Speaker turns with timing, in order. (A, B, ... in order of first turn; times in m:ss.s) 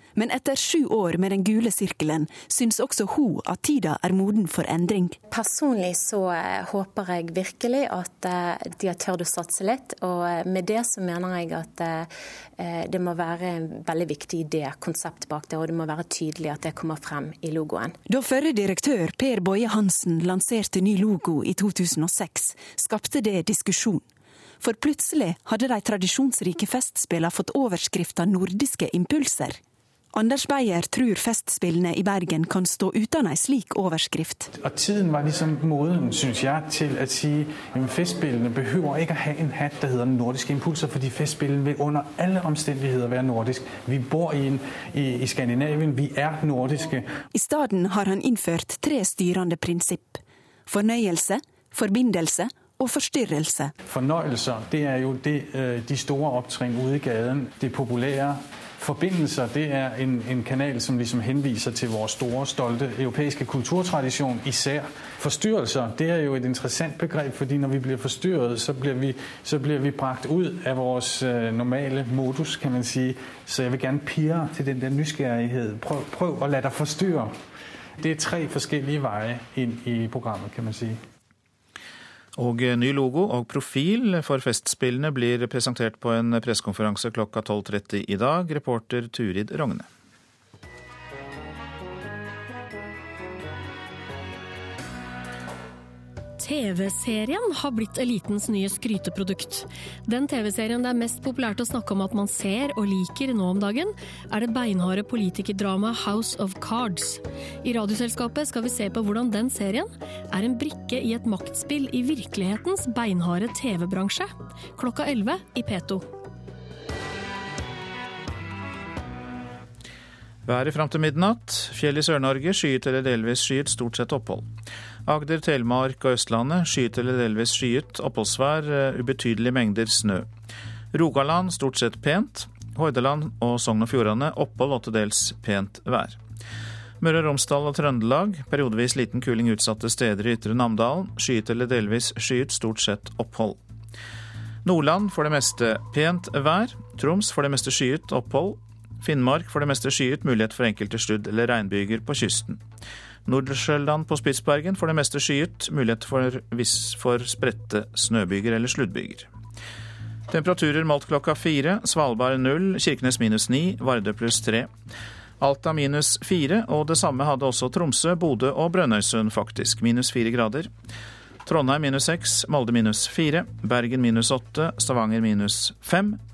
0:00.2-0:05.2 A
0:05.3-0:18.0 B
0:18.1-0:24.0 A
0:24.6-0:29.6 A
0:30.1-0:34.5 A
0:34.5-0:47.2 C
0:47.3-0:53.7 A
0:53.9-1:17.3 C
1:18.0-1:21.0 C
1:22.4-1:29.9 D
1:36.4-1:56.0 E
2:00.5-2:04.5 D
2:05.1-2:10.3 D
2:10.9-2:16.2 D
2:17.0-2:23.6 D
2:24.6-2:32.6 D
2:33.3-2:39.3 D
2:40.3-2:44.7 D
2:45.4-2:50.7 D
2:51.4-2:56.2 D